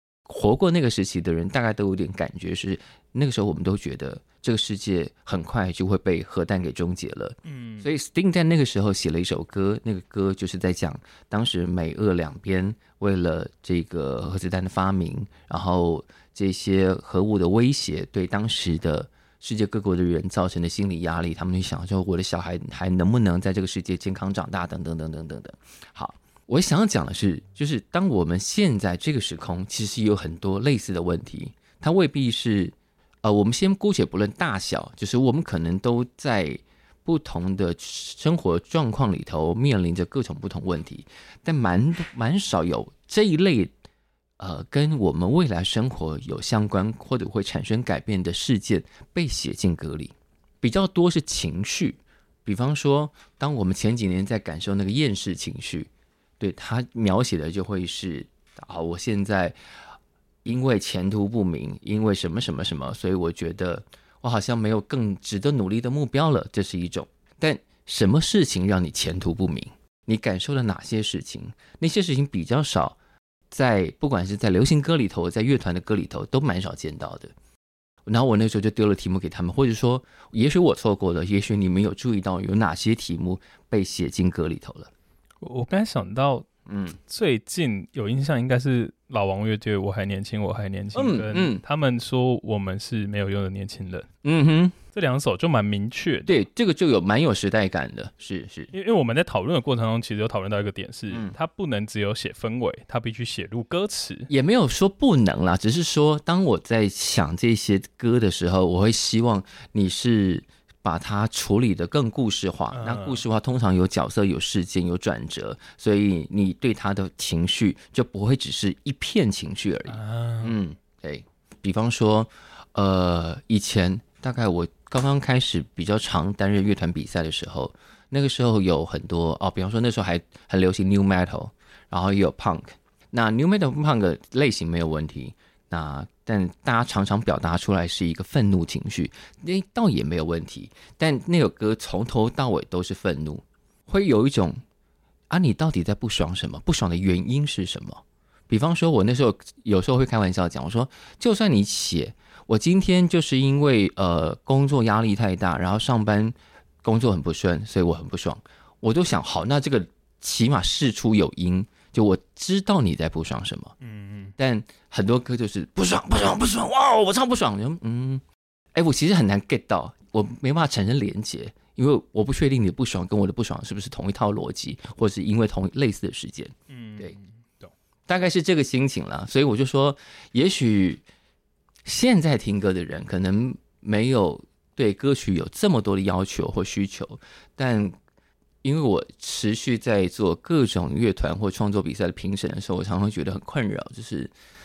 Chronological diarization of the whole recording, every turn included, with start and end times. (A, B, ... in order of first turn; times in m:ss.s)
0:00.3-0:43.7 A
0:07.5-0:07.9 B
0:44.4-0:59.6 A
1:00.4-1:13.0 A
1:13.5-1:17.3 A
1:18.1-1:24.9 A
1:25.4-1:26.5 B
1:26.7-1:27.0 A
1:27.1-1:34.1 B
1:30.9-1:31.6 A
1:34.2-1:34.8 A
1:34.9-1:36.3 B
1:36.3-1:38.7 A
1:38.7-1:44.3 B
1:44.3-2:24.6 A
1:52.7-1:53.2 B
1:59.9-2:00.6 B
2:25.3-2:43.8 A
2:43.8-2:44.3 B
2:44.4-2:48.2 A
2:48.8-2:57.2 A
2:56.7-2:57.7 B
2:58.1-3:01.0 A
3:01.8-3:08.0 A
3:08.6-3:14.3 A